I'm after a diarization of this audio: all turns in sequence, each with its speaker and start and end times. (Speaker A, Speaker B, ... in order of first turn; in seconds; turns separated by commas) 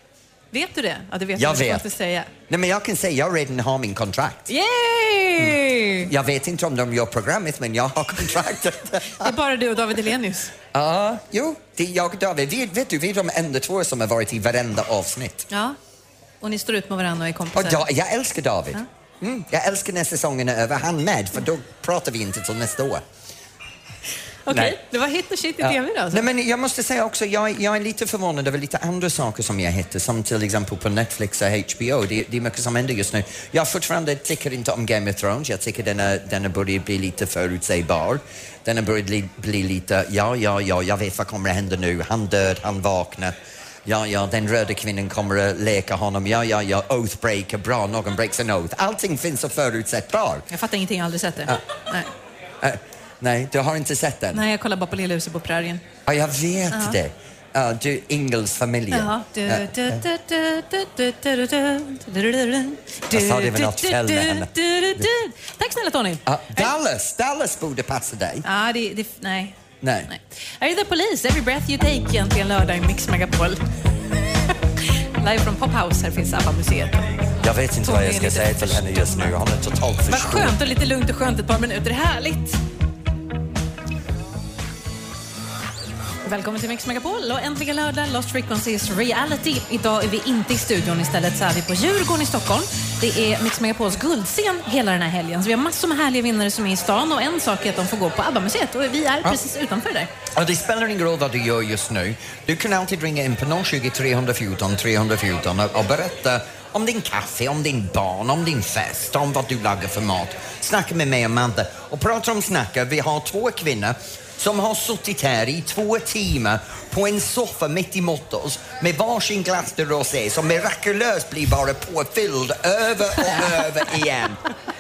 Speaker A: 0.5-2.3, Speaker B: 1.4-1.9, Speaker B: 2.5-4.5, Speaker A: 4.5-6.1, Speaker B: 5.4-9.3, Speaker A: 9.2-10.5, Speaker B: 10.7-15.5, Speaker A: 15.5-15.8, Speaker A: 16.4-17.8, Speaker B: 17.5-23.0, Speaker A: 24.5-26.2, Speaker B: 24.5-24.8, Speaker B: 25.6-50.5, Speaker A: 50.5-52.1, Speaker B: 52.6-54.5, Speaker A: 54.3-55.8, Speaker B: 56.1-60.0, Speaker A: 56.7-57.0, Speaker A: 58.9-66.7, Speaker B: 63.1-65.1, Speaker B: 66.3-68.5, Speaker A: 68.4-69.5, Speaker B: 69.8-70.1, Speaker A: 70.1-73.6, Speaker A: 75.2-77.1, Speaker B: 77.4-80.7, Speaker A: 77.8-79.4, Speaker A: 80.1-82.6, Speaker A: 86.2-100.1, Speaker B: 100.3-124.4